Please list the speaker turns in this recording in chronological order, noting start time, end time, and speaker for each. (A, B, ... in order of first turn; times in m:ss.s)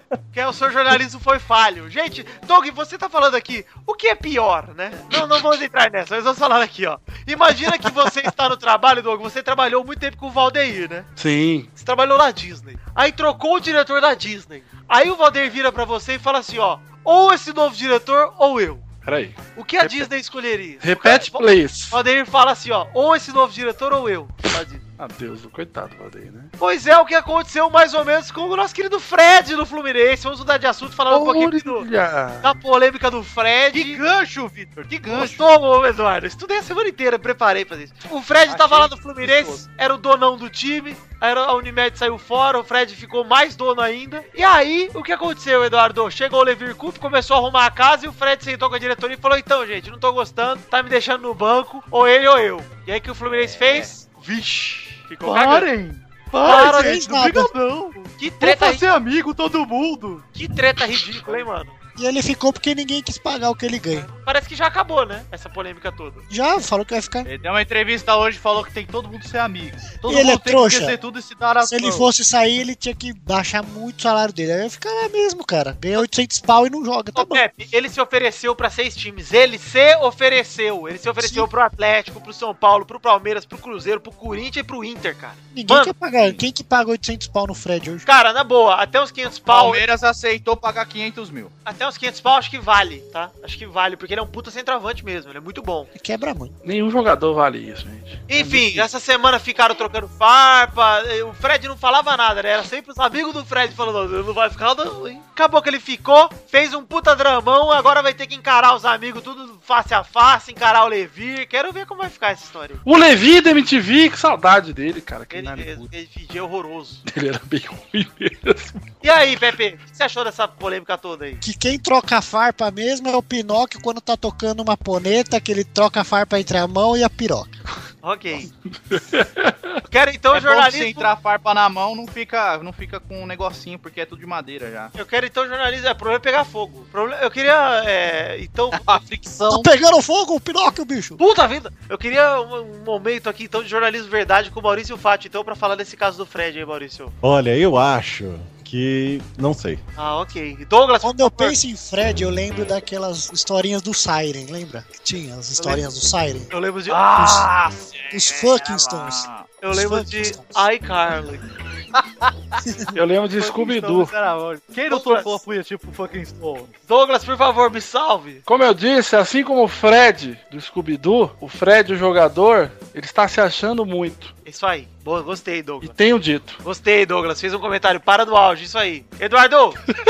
0:00.3-0:11.1 A
0:11.2-0:11.7 B
0:11.8-0:18.8 A
0:19.0-0:20.1 B
0:19.6-0:24.8 A
0:20.8-0:22.0 B
0:25.0-0:26.5 B
0:26.6-0:31.9 A
0:31.1-0:32.5 B
0:32.4-0:34.0 A
0:33.7-0:35.5 C
0:35.1-0:55.7 A
0:38.5-0:39.6 C
0:53.3-0:53.9 C
0:55.2-1:00.3 C
0:56.4-0:57.0 A
0:56.4-0:57.5 D
0:58.2-0:58.8 A
1:00.4-1:01.8 A
1:02.0-1:04.1 D
1:04.0-1:06.2 A
1:06.3-1:07.3 D
1:07.2-1:12.1 C
1:10.1-1:11.0 D
1:11.6-1:17.4 D
1:17.2-1:25.9 A
1:21.2-1:21.5 D
1:25.5-1:28.1 D
1:26.2-1:26.4 C
1:28.1-1:29.8 A
1:29.5-1:31.5 C
1:31.7-1:35.9 A
1:36.0-1:36.6 D
1:36.6-1:38.2 B
1:38.3-1:52.8 A
1:38.4-1:38.9 C
1:52.8-1:55.9 B
1:55.3-1:57.0 A
1:57.1-1:58.8 B
1:59.0-2:01.4 A
2:01.4-2:07.6 D
2:08.0-2:08.5 A
2:08.9-2:09.7 B
2:09.9-2:11.1 A
2:10.3-2:14.9 C
2:15.0-2:19.0 A
2:18.7-2:19.7 C
2:19.5-2:21.2 D
2:21.2-2:27.2 A
2:27.2-2:29.8 E
2:30.0-2:31.6 A
2:31.0-2:36.5 D
2:35.6-2:35.8 A
2:36.5-2:37.3 A
2:36.9-2:39.5 C
2:37.2-2:37.5 D
2:38.1-2:40.6 D
2:39.6-2:41.4 A
2:42.0-2:42.3 C
2:42.6-2:42.9 D
2:42.9-2:44.1 B
2:43.4-2:46.8 C
2:44.9-2:45.4 A
2:46.9-2:48.4 A
2:48.5-2:54.3 B
2:54.5-2:56.0 A
2:55.8-2:56.6 B
2:56.6-2:59.8 A